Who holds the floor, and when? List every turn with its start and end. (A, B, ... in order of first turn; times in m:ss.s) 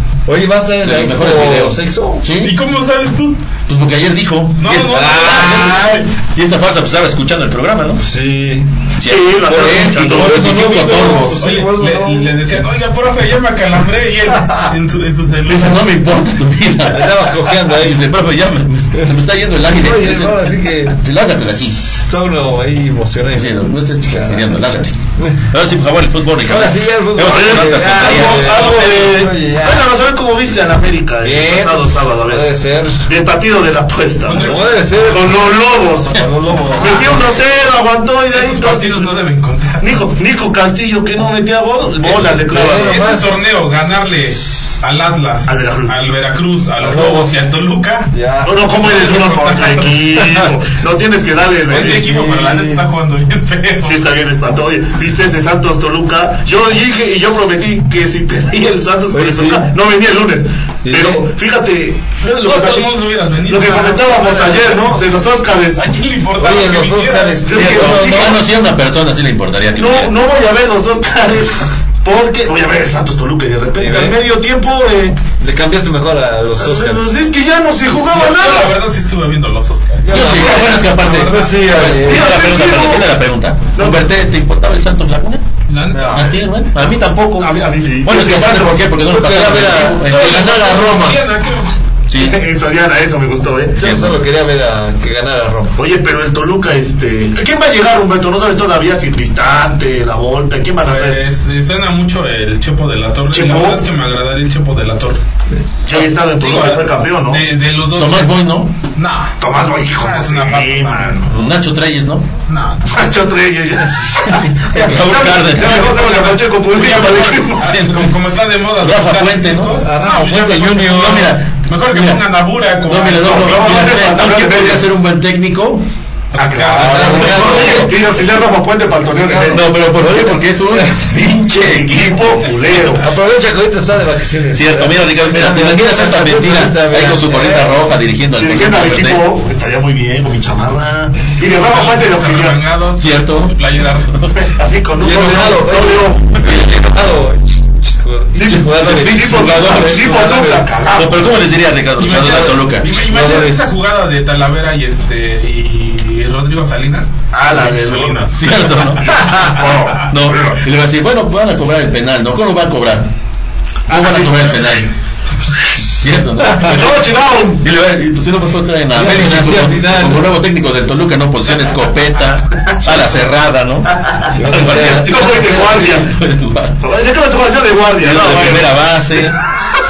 0:00.3-0:02.2 A
0:00.8-0:02.5 B
0:02.4-0:03.4 C
0:03.7-0:08.0 B
0:04.6-0:05.8 C
0:04.9-0:06.0 A
0:08.0-0:08.9 A
0:09.0-0:11.5 B
0:09.0-0:10.6 D
0:09.4-0:12.3 A
0:10.5-0:15.8 C
0:14.3-0:14.6 A
0:15.5-0:21.8 B
0:16.9-0:18.1 A
0:19.6-0:21.0 A
0:21.8-0:24.6 A
0:23.3-0:25.0 B
0:25.2-0:25.4 A
0:25.5-0:28.5 B
0:26.5-0:29.9 A
0:27.2-0:32.4 D
0:28.3-0:29.1 C
0:31.2-0:33.0 A
0:33.0-0:36.2 D
0:34.2-0:35.0 C
0:34.3-0:37.3 A
0:36.7-0:39.2 D
0:38.3-0:39.9 C
0:39.8-0:43.0 D
0:42.5-0:43.4 A
0:42.5-0:48.1 C
0:45.5-0:46.0 D
0:46.8-0:47.3 A
0:48.1-0:48.6 A
0:48.4-0:52.1 D
0:48.8-0:50.0 C
0:51.7-0:52.9 A
0:51.7-0:54.0 C
0:53.8-1:02.9 D
0:59.1-0:59.7 A
1:00.8-1:01.2 A
1:02.4-1:04.8 C
1:03.4-1:05.8 D
1:05.8-1:07.4 C
1:06.4-1:08.4 A
1:07.4-1:08.4 D
1:07.5-1:10.1 B
1:09.8-1:15.2 D
1:13.8-1:14.2 A
1:15.4-1:17.2 A
1:16.6-1:18.7 D
1:17.9-1:22.0 C
1:20.0-1:22.4 A
1:20.1-1:25.4 B
1:22.0-1:23.1 D
1:23.8-1:24.0 D
1:25.7-1:26.3 C
1:25.9-1:26.3 A
1:26.1-1:30.7 B
1:27.4-1:28.9 D
1:29.0-1:31.3 A
1:30.1-1:31.7 C
1:32.1-1:32.4 B
1:32.1-1:33.8 D
1:33.8-1:35.8 A
1:33.8-1:34.2 B
1:35.8-1:41.2 D
1:40.8-1:45.2 C
1:43.3-1:43.8 D
1:45.8-1:47.4 D
1:46.0-1:48.4 C
1:48.0-1:48.7 B
1:48.9-1:51.3 C
1:49.4-1:51.3 D
1:51.3-1:52.3 B
1:52.5-1:53.0 C
1:52.9-1:57.7 D
1:54.7-1:55.9 B
1:55.5-2:04.0 C
1:57.6-1:58.1 B
1:58.8-2:02.2 B
1:59.8-2:01.3 A
2:02.8-2:05.8 B
2:03.2-2:04.8 D
2:06.3-2:07.9 C
2:06.4-2:09.7 D
2:06.7-2:08.0 A
2:09.1-2:10.9 A
2:09.5-2:12.4 B
2:11.5-2:13.0 D
2:13.0-2:17.8 A
2:14.5-2:19.2 B
2:18.4-2:22.6 D
2:21.5-2:24.3 C
2:23.0-2:23.5 B
2:24.4-2:26.2 D
2:25.0-2:30.8 A
2:26.4-2:26.9 B
2:28.4-2:31.3 D
2:28.6-2:30.1 B
2:30.9-2:33.4 B
2:32.0-2:39.2 C
2:32.0-2:33.7 A
2:37.3-2:38.3 D
2:38.3-2:39.3 B
2:39.1-2:40.6 D
2:40.1-2:43.1 B
2:43.9-2:44.7 D
2:43.9-2:44.9 B
2:45.9-2:56.8 B
2:46.6-2:47.6 D
2:48.9-2:50.3 A
2:54.3-2:55.9 A
2:54.8-2:56.1 D
2:56.8-2:58.7 D
2:58.0-2:59.4 B